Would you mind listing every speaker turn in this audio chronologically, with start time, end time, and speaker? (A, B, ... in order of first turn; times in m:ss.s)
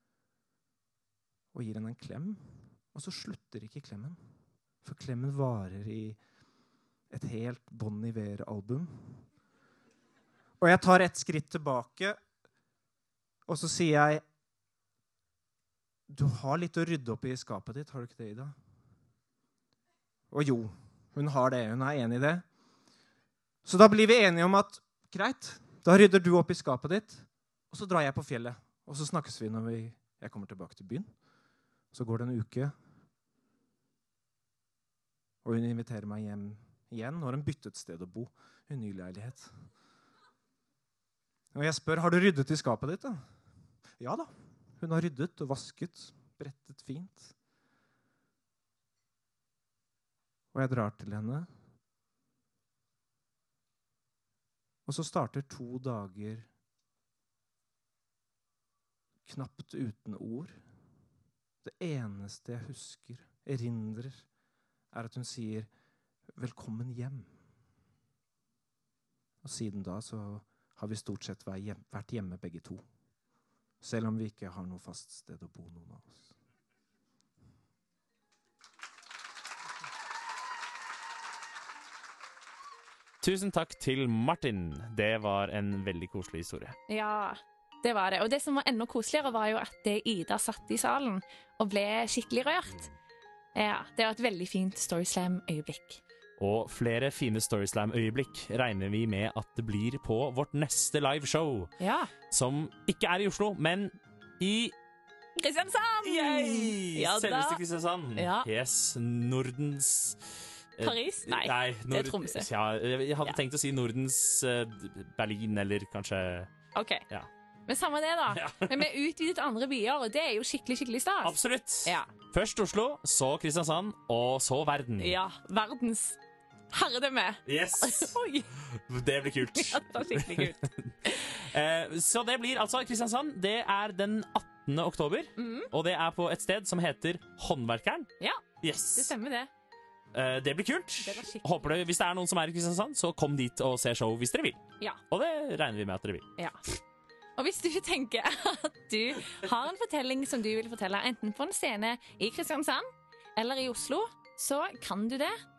0:01.5-0:02.4 A
0:02.9-0:04.2 A
0:04.8-0:06.2 A
0:07.1-0:09.2 A
0:10.6-0:12.2 A
0:13.5-0:14.2 A
0:16.1-0:18.5 A
0:20.3-0:22.4 A
0:23.6-0:31.1 A
0:31.9-0:32.7 A
0:35.4-0:39.5 A
0:41.5-0:43.2 A
0:44.0-0:47.3 A
0:50.5-0:51.5 A
0:54.8-0:56.5 A
0:59.2-1:00.6 A
1:01.6-1:04.2 A
1:04.9-1:05.7 A
1:06.4-1:07.3 A
1:09.4-1:12.8 A
1:13.8-1:16.3 A
1:23.2-1:26.8 B
1:26.9-1:32.8 C
1:33.5-1:36.0 C
1:36.4-1:41.7 B
1:41.8-1:42.1 C
1:42.3-1:44.7 B
1:45.4-1:47.6 C
1:46.0-1:50.2 B
1:48.2-1:48.5 C
1:50.8-1:56.5 B
1:50.8-1:52.5 C
1:56.7-1:57.0 C
1:57.7-2:02.1 C
1:58.3-1:58.8 B
2:01.2-2:05.2 B
2:05.0-2:06.2 C
2:06.7-2:08.5 C
2:07.4-2:08.1 B
2:08.7-2:18.1 B
2:09.6-2:11.1 C
2:15.4-2:15.7 C
2:18.6-2:19.1 B
2:19.0-2:19.5 C
2:20.1-2:26.3 B
2:21.0-2:21.7 C
2:27.4-2:32.8 C
2:33.4-2:35.3 C